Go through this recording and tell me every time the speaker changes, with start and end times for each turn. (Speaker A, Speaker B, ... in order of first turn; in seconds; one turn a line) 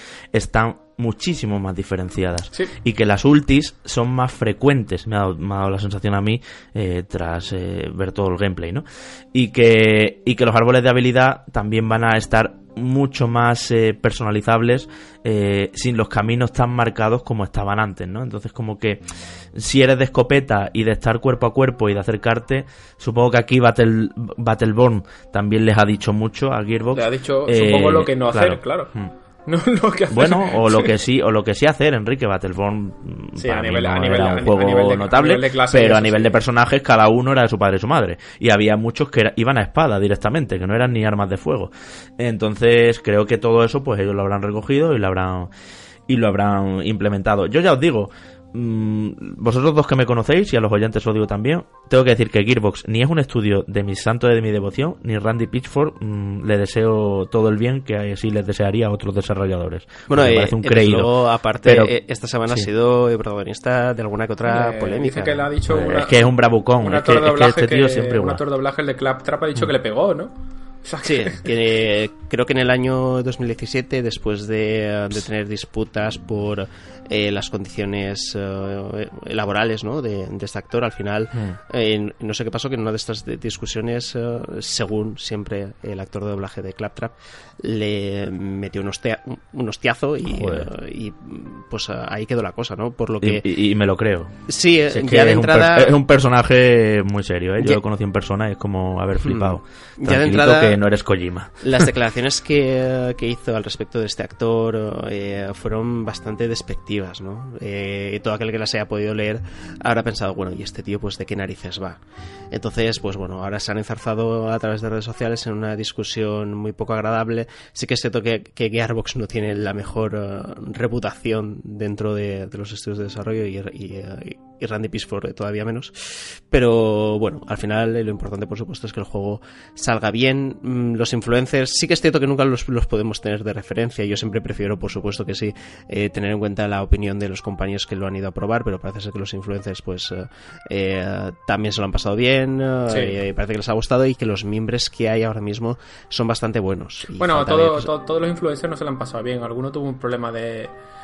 Speaker A: 0.3-29.1
Speaker B: 26.9-28.9
Speaker B: 29.5-30.9
Speaker A: 30.1-45.5
Speaker B: 33.4-36.4
Speaker A: 46.1-61.1
Speaker C: 60.1-65.5
Speaker A: 61.6-61.9
Speaker B: 64.5-71.5
Speaker A: 65.7-68.4
Speaker C: 71.0-93.5
Speaker A: 90.3-90.7
Speaker A: 93.2-94.4
Speaker C: 94.5-96.0
Speaker A: 94.9-101.9
Speaker C: 99.2-100.8
Speaker C: 101.6-112.0
Speaker C: 112.5-147.9
Speaker B: 142.9-143.2
Speaker B: 147.2-150.7